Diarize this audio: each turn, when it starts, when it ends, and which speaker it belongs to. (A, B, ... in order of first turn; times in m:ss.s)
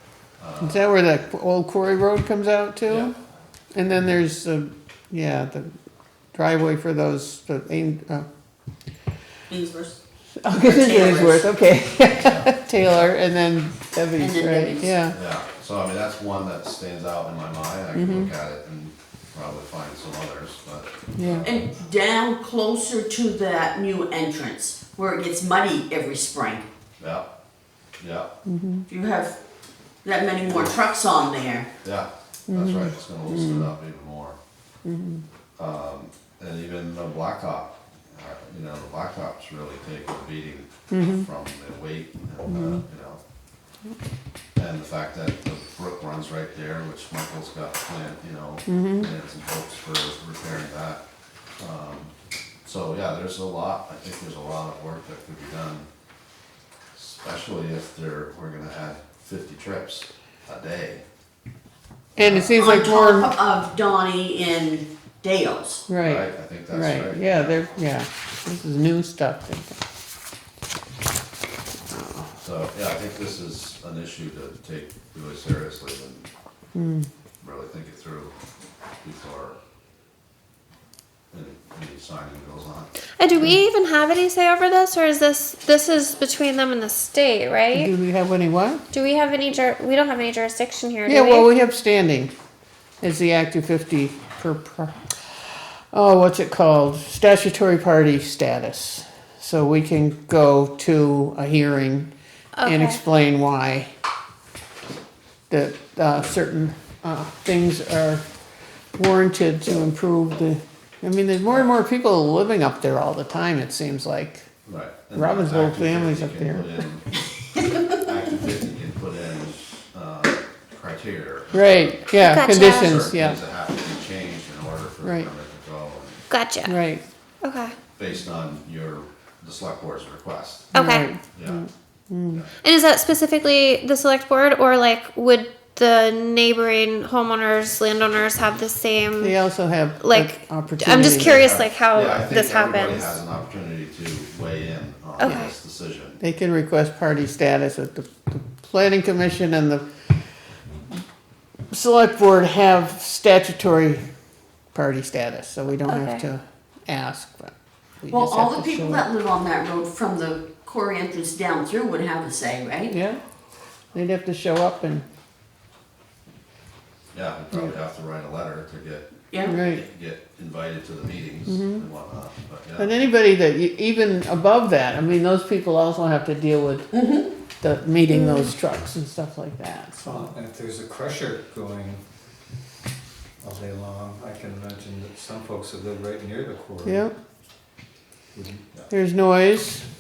0:00.4-0:00.9 A
0:00.6-0:03.1 B
0:02.9-0:03.1 A
0:03.7-0:05.7 B
0:06.4-0:08.3 B
0:09.5-0:10.0 C
0:10.4-0:15.2 B
0:10.6-0:11.5 C
0:12.1-0:13.1 A
0:14.2-0:14.9 C
0:15.1-0:21.5 A
0:17.9-0:18.3 B
0:21.2-0:21.5 B
0:21.4-0:26.6 C
0:27.0-0:27.3 A
0:28.0-0:28.3 A
0:28.5-0:28.9 B
0:28.9-0:29.4 C
0:30.0-0:31.7 C
0:31.8-0:34.4 A
0:32.5-0:33.7 B
0:34.8-0:35.2 B
0:35.6-0:43.2 A
0:40.9-0:41.3 B
0:42.5-0:42.8 B
0:44.6-0:51.0 A
0:48.7-0:49.1 B
0:51.6-0:52.1 A
0:52.6-0:55.9 A
0:57.0-1:01.0 A
1:02.2-1:03.3 B
1:02.2-1:02.6 A
1:02.6-1:05.8 C
1:05.9-1:09.8 B
1:06.0-1:07.6 A
1:11.9-1:12.3 B
1:12.4-1:16.3 A
1:16.8-1:17.1 B
1:17.4-1:18.3 A
1:19.0-1:19.6 A
1:21.3-1:22.9 A
1:23.2-1:27.9 D
1:27.7-1:28.8 B
1:28.9-1:31.5 D
1:31.1-1:32.3 B
1:33.0-1:34.9 B
1:35.9-1:42.1 B
1:42.6-1:43.0 D
1:42.6-1:43.9 B
1:45.5-1:48.2 B
1:49.0-1:54.5 B
1:54.7-1:57.1 A
1:55.2-1:56.7 B
1:57.8-2:06.2 A
2:01.5-2:03.4 B
2:02.2-2:03.0 D
2:05.0-2:05.3 B
2:06.3-2:06.8 D
2:06.7-2:07.0 B
2:07.4-2:07.8 D
2:08.0-2:10.7 A
2:10.7-2:11.1 D
2:10.7-2:12.4 B
2:11.3-2:11.6 A
2:12.6-2:19.4 D
2:19.2-2:21.5 B
2:20.0-2:23.1 D
2:20.9-2:26.2 A
2:25.2-2:25.5 D
2:26.2-2:29.8 B
2:31.7-2:34.0 B
2:34.7-2:39.1 B
2:35.9-2:36.3 D
2:38.1-2:42.9 C
2:42.9-2:43.2 B
2:43.9-2:45.1 B
2:47.1-2:52.9 A
2:49.3-2:49.6 C
2:49.4-2:49.8 B
2:51.5-2:51.8 B
2:52.8-2:56.9 B
2:56.9-2:57.3 C
2:57.6-3:00.3 B
2:58.1-2:58.5 D
3:00.0-3:02.0 E
3:03.4-3:07.1 E
3:06.8-3:07.1 B
3:08.3-3:08.6 E
3:08.9-3:09.9 B